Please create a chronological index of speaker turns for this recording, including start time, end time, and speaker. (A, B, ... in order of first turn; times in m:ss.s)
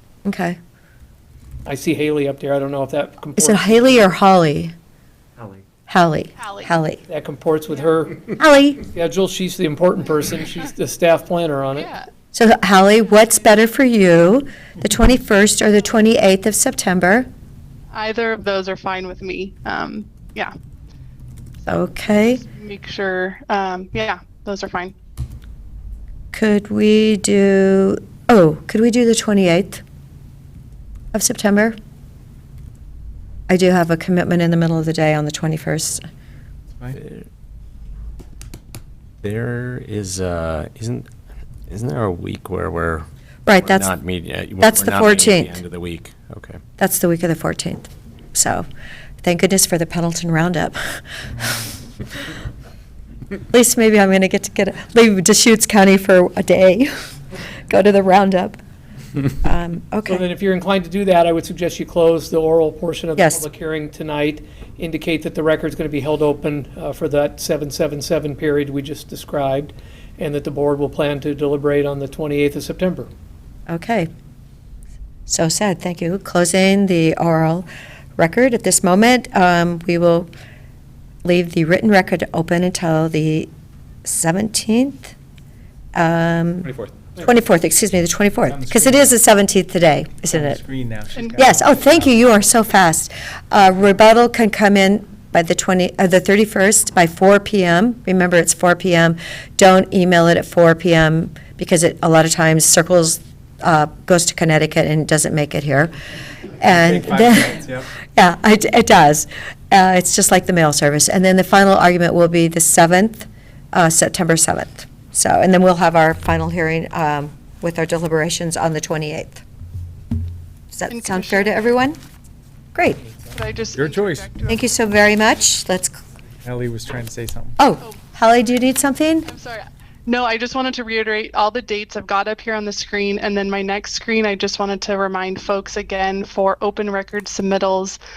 0:00.2-0:00.6 A
0:01.6-0:03.7 B
0:03.4-0:04.7 A
0:05.9-0:07.0 A
0:06.4-0:06.7 C
0:07.1-0:08.2 B
0:08.4-0:08.8 A
0:08.9-0:11.9 B
0:11.8-0:12.1 C
0:12.3-0:17.2 A
0:17.9-0:20.5 C
0:21.7-0:22.4 A
0:21.9-0:24.9 C
0:26.3-0:29.8 A
0:31.1-0:31.7 A
0:33.5-0:36.0 A
0:36.9-0:37.2 D
0:39.2-0:41.0 D
0:41.7-0:46.6 D
0:43.4-0:43.9 A
0:44.6-0:45.6 A
0:46.8-0:48.6 A
0:49.2-0:50.8 A
0:53.5-0:56.9 A
0:57.7-0:58.6 A
0:59.4-1:00.2 A
1:00.1-1:13.1 B
1:03.2-1:03.4 A
1:13.7-1:14.1 A
1:15.3-1:17.6 A
1:18.2-1:20.3 A
1:21.2-1:23.5 A
1:24.0-1:25.1 A
1:25.9-1:30.6 A
1:28.5-1:29.0 E
1:30.3-1:32.1 E
1:31.2-1:31.5 C
1:31.4-1:45.9 A
1:46.6-1:59.4 A
1:46.8-1:47.8 E
2:00.7-2:02.0 A
2:00.9-2:01.7 C
2:02.7-2:03.0 A
2:03.3-2:04.7 C
2:03.7-2:04.2 E
2:04.5-2:06.0 A
2:06.4-2:07.6 E
2:07.6-2:09.3 A
2:09.2-2:18.0 C